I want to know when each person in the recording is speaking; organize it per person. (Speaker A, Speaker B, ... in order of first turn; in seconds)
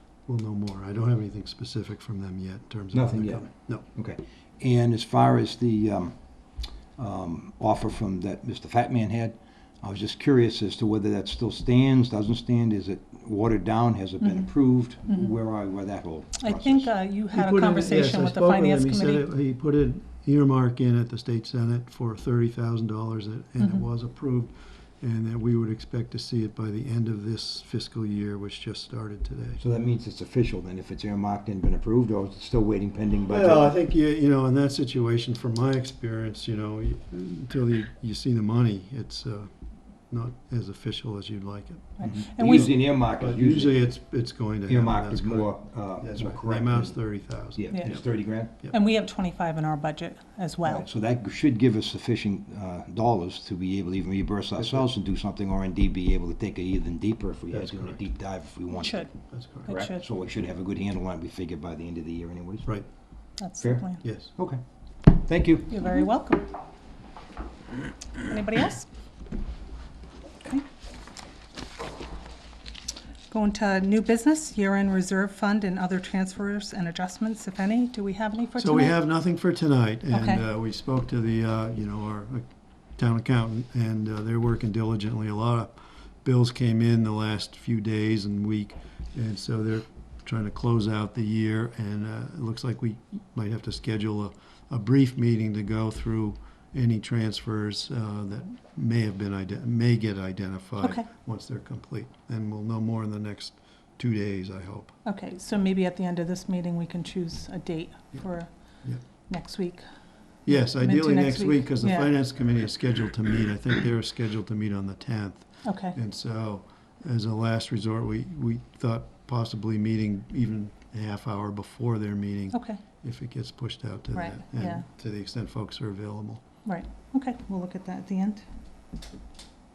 Speaker A: 0.3-3.9, 17.3-29.6, 33.3-39.5, 40.1-48.0, 57.5-58.0, 59.3-59.7, 64.0-64.3, 78.6-105.0, 110.5-126.4
Speaker B: 2.9-6.2, 7.0-16.9, 29.6-33.7, 42.0-43.9, 44.7-47.0, 47.5-48.5, 50.6-59.0, 59.7-62.7, 63.6-65.7
Speaker C: 16.4-19.3, 42.0-42.7, 47.7-50.9, 58.8-59.1, 59.7-60.0, 63.4-64.0, 65.7-66.5, 68.2-68.9, 73.3-79.0, 80.1-80.4, 100.8-101.1, 105.0-108.5, 109.3-109.8, 110.5-112.1, 115.6-116.0, 122.5-122.8, 124.1-124.8, 126.6-128.4